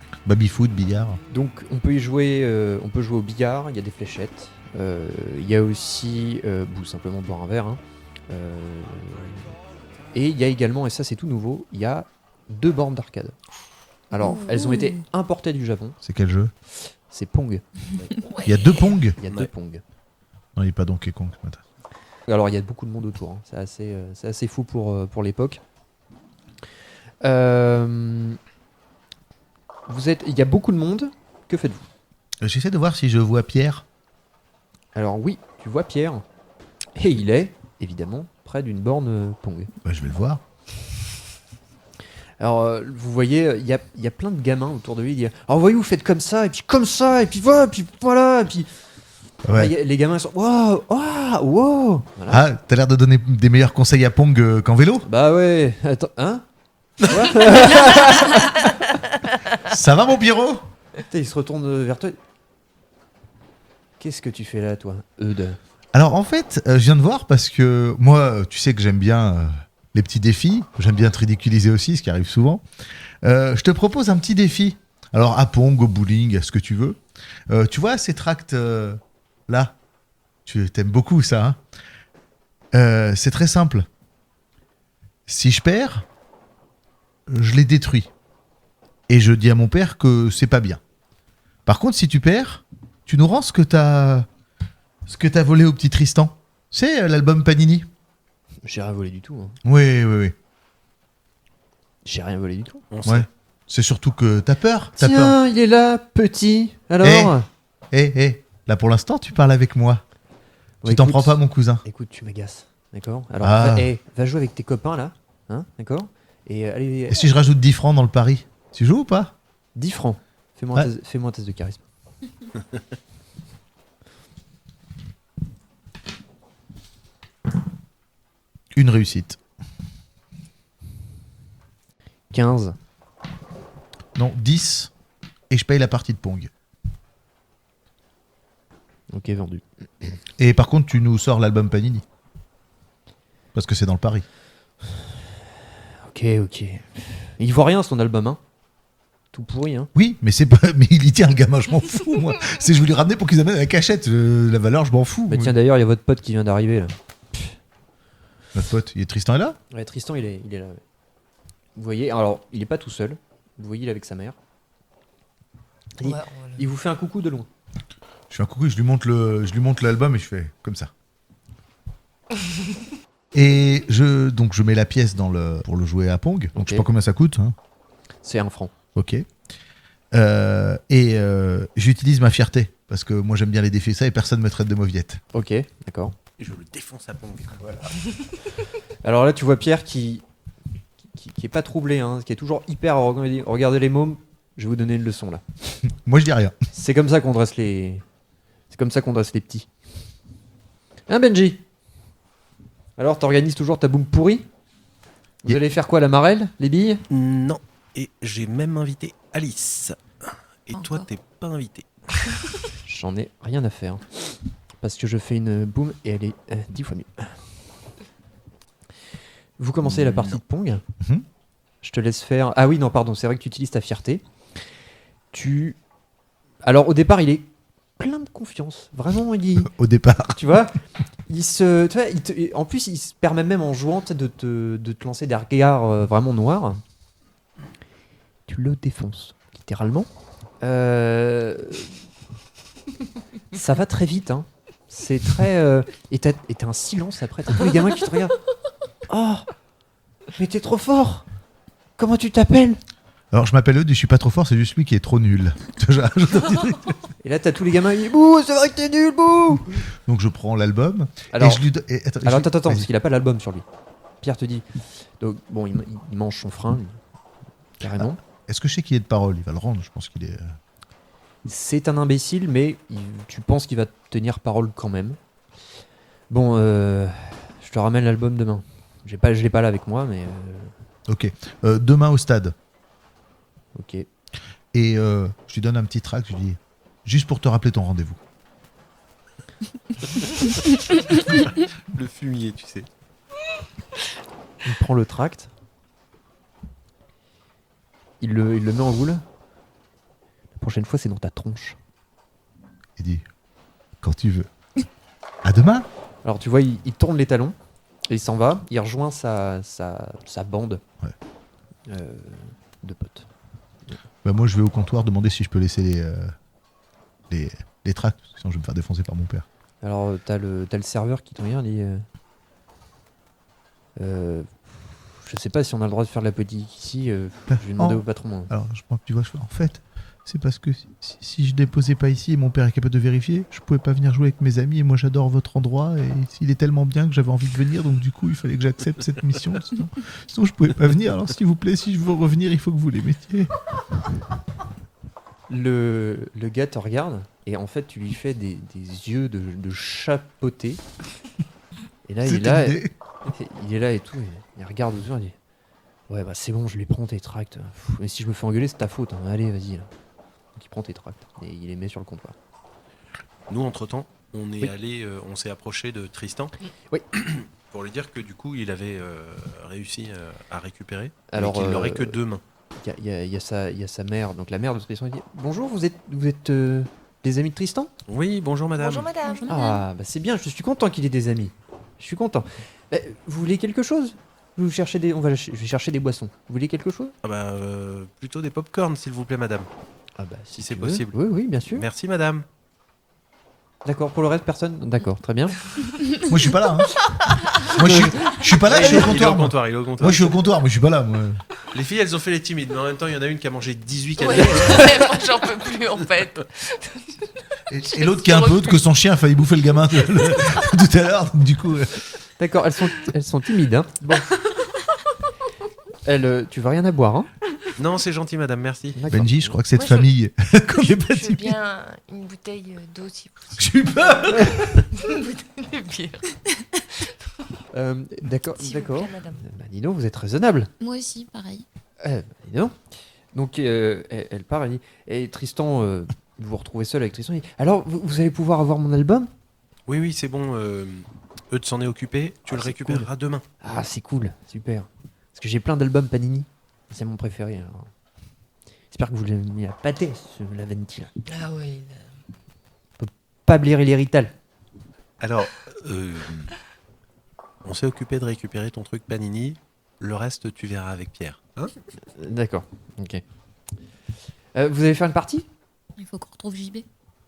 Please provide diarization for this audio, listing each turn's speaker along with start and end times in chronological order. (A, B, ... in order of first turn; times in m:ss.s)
0:00.2-0:01.2 A
0:01.3-0:09.6 B
0:10.1-0:13.4 B
0:14.1-0:16.0 B
0:14.2-0:15.0 C
0:16.0-0:16.5 A
0:16.8-0:17.6 B
0:18.2-0:19.0 D
0:18.4-0:19.2 A
0:19.2-0:19.8 B
0:20.6-0:21.6 A
0:22.3-0:25.6 B
0:27.2-0:28.4 B
0:29.9-0:31.8 B
0:32.4-0:33.8 A
0:35.0-0:36.2 B
0:37.0-0:39.7 B
0:39.8-0:40.4 A
0:42.4-0:48.7 B
0:49.4-0:49.7 A
0:49.5-0:52.4 B
0:52.3-0:55.1 A
0:55.0-0:56.5 B
0:57.0-0:58.8 B
0:59.6-1:00.7 A
1:01.1-1:02.2 B
1:04.0-1:05.6 B
1:05.9-1:12.6 A
1:13.2-1:19.8 A
1:20.5-1:21.6 A
1:22.7-1:23.9 A
1:25.3-1:26.1 A
1:27.3-1:28.1 A
1:29.1-1:30.8 A
1:31.7-1:34.3 A
1:35.1-1:37.9 A
1:38.6-1:39.6 B
1:39.6-1:40.4 A
1:42.0-1:42.9 B
1:42.9-1:43.3 E
1:43.0-1:45.4 A
1:45.0-1:47.5 B
1:47.0-1:47.3 A
1:47.9-1:50.0 A
1:50.8-1:57.3 B
1:50.8-1:51.8 A
1:53.4-1:53.9 A
1:57.1-1:59.4 A
1:59.8-2:01.8 B
2:08.7-2:09.4 A
2:12.3-2:12.8 B
2:14.2-2:14.9 A
2:15.5-2:16.5 A
2:19.1-2:20.2 B
2:20.4-2:22.0 A
2:23.5-2:24.2 A
2:26.0-2:28.4 B
2:29.3-2:29.9 B
2:30.0-2:35.6 A
2:35.3-2:37.5 B
2:38.5-2:39.6 A
2:39.7-2:40.8 B
2:41.8-2:44.4 B
2:46.0-2:47.5 B
2:46.0-2:46.6 D
2:48.3-2:50.9 A
2:53.3-2:57.6 A
2:56.6-2:56.9 B
2:58.2-2:58.7 B
2:59.0-2:59.3 A
3:00.1-3:05.2 A
3:05.3-3:06.2 B
3:06.4-3:07.9 E
3:09.0-3:10.2 B
3:11.1-3:15.4 B
3:15.9-3:16.6 A
3:16.7-3:18.0 B
3:18.7-3:19.7 B
3:21.1-3:21.6 B
3:23.0-3:24.5 B
3:25.4-3:27.0 B
3:27.1-3:31.9 E
3:30.7-3:31.1 C
3:32.8-3:34.3 B
3:34.8-3:37.4 B
3:39.6-3:40.8 B
3:41.8-3:44.2 B
3:45.3-3:45.8 B
3:46.6-3:49.7 B
3:49.6-3:50.4 A
3:50.3-3:56.8 B
3:58.5-4:00.1 B
4:00.6-4:02.0 B
4:03.5-4:08.4 B
4:09.1-4:09.5 B
4:10.4-4:11.3 B
4:12.0-4:12.8 B
4:13.3-4:17.0 A
4:17.2-4:19.8 B
4:20.1-4:22.9 A
4:21.3-4:21.6 B
4:22.2-4:23.7 B
4:24.2-4:24.7 B
4:25.2-4:27.0 B
4:27.8-4:28.2 B
4:28.0-4:30.6 A
4:31.5-4:35.2 B
4:36.3-4:40.7 B
4:41.1-4:42.6 A
4:43.8-4:44.1 B
4:44.7-4:48.2 A
4:51.1-4:52.9 E
4:54.6-4:55.5 B
4:58.2-4:59.2 B
5:00.6-5:01.8 B
5:03.0-5:03.2 A
5:04.0-5:04.5 A
5:05.4-5:05.9 A
5:06.2-5:07.6 B
5:08.1-5:10.8 B
5:11.9-5:13.3 B
5:14.2-5:16.3 A
5:17.3-5:19.4 A
5:19.8-5:22.0 B
5:24.0-5:28.5 B
5:27.5-5:43.5 A
5:45.5-5:50.8 B
5:52.1-5:55.4 B
5:52.2-5:52.9 A
5:56.1-5:59.9 B
6:00.6-6:02.4 B
6:03.5-6:06.6 E
6:07.1-6:12.4 E
6:11.3-6:12.2 B
6:12.8-6:17.9 B
6:18.1-6:19.1 E
6:18.8-6:19.7 D
6:19.2-6:19.8 C
6:19.5-6:27.2 B
6:27.2-6:29.7 E
6:30.2-6:31.9 B
6:30.6-6:31.2 E
6:31.7-6:32.4 E
6:33.8-6:35.6 B
6:36.2-6:41.4 A
6:37.8-6:38.1 B
6:38.5-6:40.4 E
6:41.7-6:45.2 E
6:44.2-6:47.2 D
6:47.7-6:52.0 A
6:47.8-6:48.8 D
6:52.4-6:54.4 B
6:56.0-6:57.3 B
6:57.8-6:59.0 E
6:59.0-6:59.6 B
6:59.1-7:01.6 A
6:59.8-7:00.1 D
7:00.8-7:06.4 D
7:03.6-7:04.9 A
7:07.7-7:10.7 B
7:08.6-7:09.4 D
7:10.8-7:11.6 C
7:12.0-7:12.8 B
7:13.3-7:19.3 B
7:19.9-7:23.5 E
7:22.5-7:23.1 B
7:23.6-7:27.9 B
7:28.9-7:31.1 B
7:31.3-7:32.0 D
7:33.0-7:34.3 B
7:35.2-7:36.5 E
7:37.6-7:41.7 E
7:42.2-7:43.2 B
7:44.6-7:45.5 B
7:46.0-7:46.9 C